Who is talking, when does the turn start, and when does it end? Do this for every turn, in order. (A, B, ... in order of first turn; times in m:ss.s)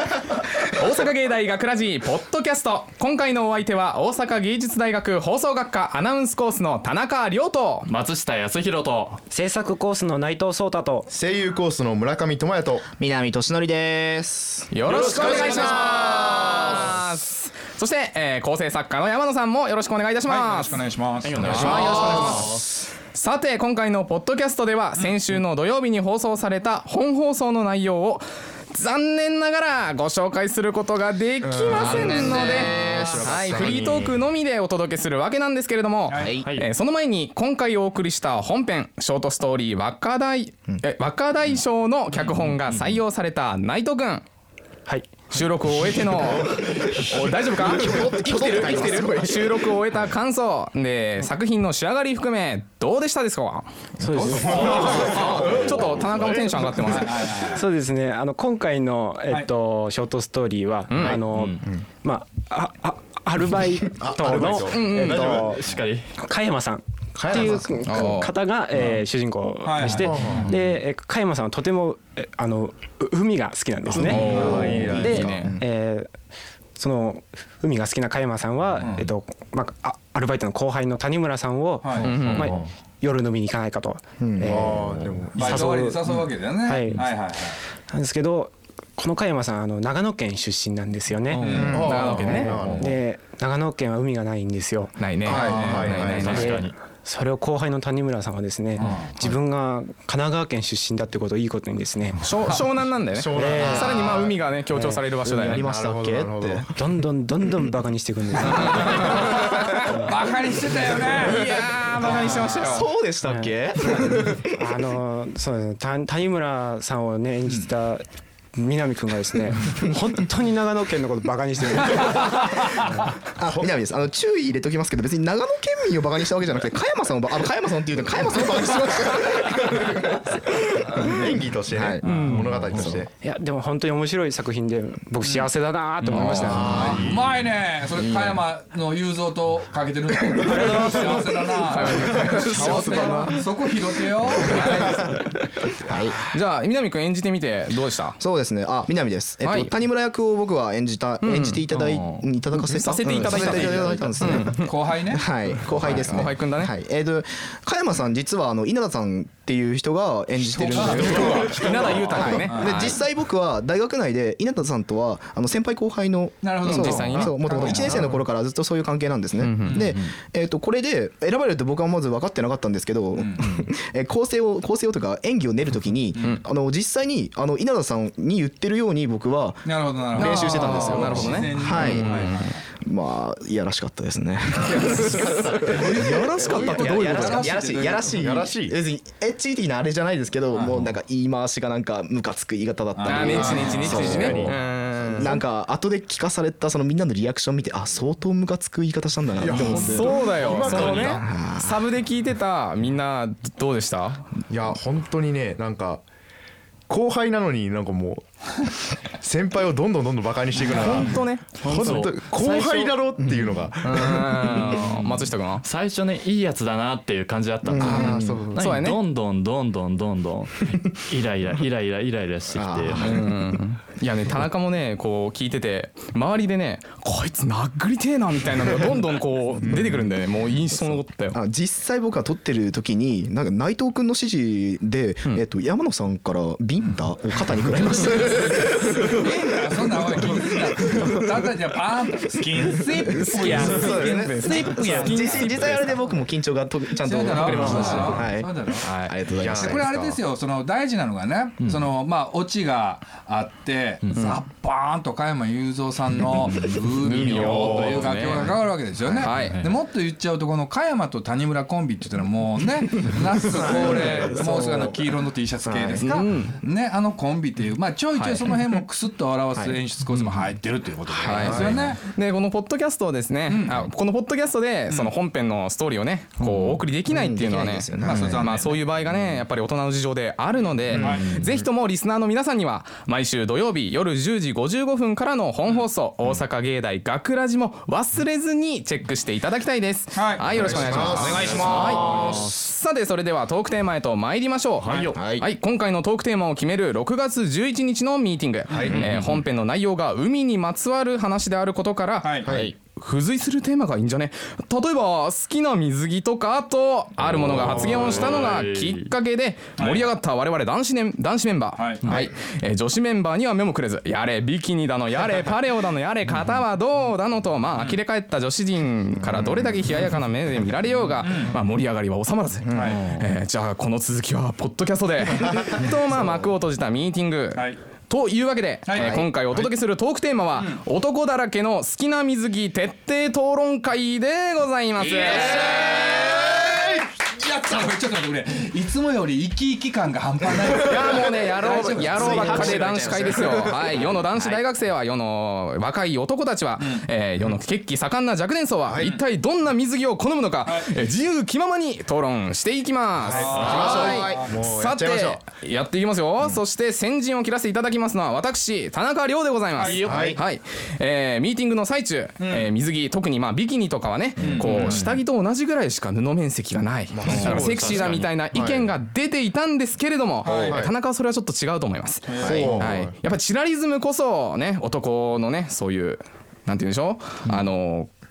0:00.6-0:07.9 A
0:07.9-0:09.2 B
0:09.3-0:11.1 C
0:11.1-0:12.9 D
0:12.9-0:16.8 E
0:14.7-0:20.8 A
0:14.9-0:16.7 D
0:14.9-0:15.4 B
0:20.2-0:21.5 F
0:21.2-0:22.6 B
0:21.4-0:44.2 A
0:21.6-0:22.3 D
0:21.6-0:22.5 E
0:31.4-0:34.2 D
0:31.7-0:33.8 E
0:36.1-0:36.4 F
0:36.2-0:36.5 E
0:36.4-0:36.7 B
0:42.3-0:43.0 B
0:44.9-0:45.4 C
0:45.3-0:53.7 A
0:47.5-0:49.6 E
0:54.0-0:55.4 C
0:54.2-0:54.9 F
0:54.4-0:57.3 A
0:54.4-0:55.7 D
0:55.4-0:55.8 B
0:56.2-0:56.5 D
0:56.9-0:57.6 F
0:57.5-1:05.6 C
1:00.9-1:01.2 A
1:00.9-1:01.2 D
1:04.0-1:05.5 D
1:04.7-1:05.4 A
1:04.9-1:05.4 E
1:05.6-1:06.1 B
1:06.2-1:16.1 C
1:07.2-1:07.6 D
1:07.8-1:08.3 A
1:08.8-1:09.0 F
1:09.6-1:10.5 F
1:09.8-1:10.5 D
1:10.4-1:10.8 B
1:13.9-1:15.2 D
1:14.1-1:15.6 A
1:14.3-1:15.6 E
1:16.8-1:26.1 C
1:18.8-1:19.1 F
1:21.8-1:22.1 F
1:22.0-1:22.6 A
1:22.2-1:22.7 D
1:24.2-1:24.7 E
1:24.4-1:25.7 D
1:25.4-1:27.6 F
1:26.6-1:27.1 C
1:27.9-1:35.0 C
1:31.3-1:32.9 B
1:31.5-1:32.9 D
1:31.7-1:32.6 A
1:35.0-1:36.6 A
1:35.2-1:36.6 D
1:35.6-1:36.8 B
1:36.3-1:42.5 C
1:42.2-1:45.6 A
1:42.5-1:44.4 D
1:43.3-1:45.0 C
1:45.2-1:46.7 E
1:45.5-1:46.7 D
1:46.7-1:49.8 C
1:48.6-1:51.4 F
1:48.8-1:49.2 A
1:51.2-1:52.9 A
1:52.0-1:54.5 E
1:53.2-2:02.8 C
2:03.4-2:10.3 E
2:03.4-2:03.7 D
2:10.8-2:13.1 D
2:11.7-2:13.0 E
2:12.3-2:12.8 B
2:13.2-2:17.0 C
2:15.2-2:15.5 F
2:16.0-2:17.2 B
2:16.1-2:16.7 A
2:16.4-2:17.3 D
2:16.8-2:24.4 F
2:20.4-2:21.4 E
2:20.8-2:23.4 A
2:21.9-2:23.5 E
2:22.4-2:22.6 D
2:24.4-2:25.2 A
2:24.4-2:25.0 E
2:25.8-2:26.3 E
2:26.3-2:28.2 A
2:28.2-3:21.8 E
2:29.4-2:29.7 A
2:31.2-2:31.6 A
2:31.7-2:32.3 B
2:32.6-2:34.7 A
2:33.2-2:33.8 D
2:34.3-2:35.2 F
2:35.7-2:36.3 B
2:35.9-2:36.7 A
2:40.4-2:43.0 F
2:41.0-2:42.0 D
2:41.2-2:43.0 A
2:46.4-2:47.1 F
2:46.6-2:47.8 A
2:47.0-2:48.2 D
2:49.4-2:49.9 A
2:49.6-2:50.0 F
2:53.2-2:53.6 F
2:59.6-3:02.6 F
3:00.2-3:02.4 A
3:01.2-3:02.3 D
3:04.7-3:07.5 A
3:04.8-3:06.4 D
3:06.0-3:08.4 F
3:08.1-3:08.8 D
3:10.5-3:11.0 F
3:13.0-3:14.2 F
3:13.1-3:15.4 A
3:13.3-3:14.6 D
3:19.4-3:21.2 D
3:19.5-3:24.3 A
3:24.5-3:26.0 D
3:26.9-3:34.8 D
3:30.7-3:31.7 A
3:30.7-3:32.2 B
3:32.4-3:32.9 A
3:33.8-3:35.6 A
3:34.7-3:43.3 B
3:37.6-3:38.5 E
3:37.8-3:38.6 D
3:38.6-3:39.0 A
3:42.5-3:43.2 E
3:43.0-3:51.4 A
3:50.8-3:59.5 E
3:58.3-4:05.5 F
4:00.1-4:01.1 E
4:03.1-4:06.0 A
4:03.2-4:10.0 E
4:03.4-4:04.2 D
4:06.9-4:08.9 F
4:07.6-4:08.1 A
4:09.4-4:10.2 D
4:09.6-4:32.0 F
4:11.6-4:11.9 B
4:14.1-4:14.4 A
4:16.2-4:16.7 B
4:17.0-4:18.6 A
4:17.2-4:18.2 D
4:17.7-4:18.6 B
4:19.0-4:19.3 E
4:19.2-4:19.6 A
4:19.3-4:19.7 B
4:23.5-4:25.1 E
4:25.6-4:26.2 E
4:26.0-4:26.5 A
4:28.2-4:28.6 A
4:29.5-4:29.8 E
4:31.2-4:31.5 E
4:31.2-5:35.6 A
4:31.4-4:31.9 D
4:33.5-4:33.9 F
4:34.9-4:35.1 F
4:36.4-4:36.7 B
4:37.0-4:38.4 E
4:38.0-4:38.9 F
4:41.0-4:41.3 F
4:41.2-4:41.6 D
4:50.1-4:50.6 F
4:50.6-4:52.0 D
4:50.7-4:52.7 B
4:51.1-4:52.5 E
4:51.2-4:51.9 F
4:54.8-4:55.1 B
4:55.1-4:55.4 E
4:58.7-4:59.1 D
4:58.8-4:59.4 B
5:02.2-5:02.5 F
5:02.4-5:02.7 D
5:07.2-5:09.1 B
5:07.6-5:08.1 D
5:09.8-5:10.1 F
5:11.7-5:12.0 F
5:17.7-5:18.0 F
5:21.2-5:21.6 F
5:22.7-5:23.0 F
5:22.9-5:23.2 B
5:27.5-5:27.8 F
5:28.8-5:29.2 F
5:29.0-5:29.3 E
5:30.6-5:30.8 F
5:35.0-5:36.1 E
5:35.2-5:42.9 F
5:40.6-5:41.1 D
5:40.8-6:18.1 A
5:41.2-5:44.6 E
5:46.8-5:47.1 F
5:48.9-5:49.2 D
5:50.6-5:50.9 F
5:53.2-5:55.4 D
5:53.4-5:54.5 F
5:53.7-5:54.4 E
5:59.8-6:00.0 F
5:59.8-6:00.3 B
6:00.0-6:00.4 E
6:00.1-6:00.4 D
6:02.4-6:02.7 F
6:04.4-6:05.0 F
6:04.8-6:05.2 B
6:07.1-6:09.0 D
6:07.3-6:08.3 B
6:10.4-6:10.8 F
6:10.5-6:11.0 D
6:12.2-6:12.7 F
6:12.4-6:12.8 E
6:12.4-6:13.2 D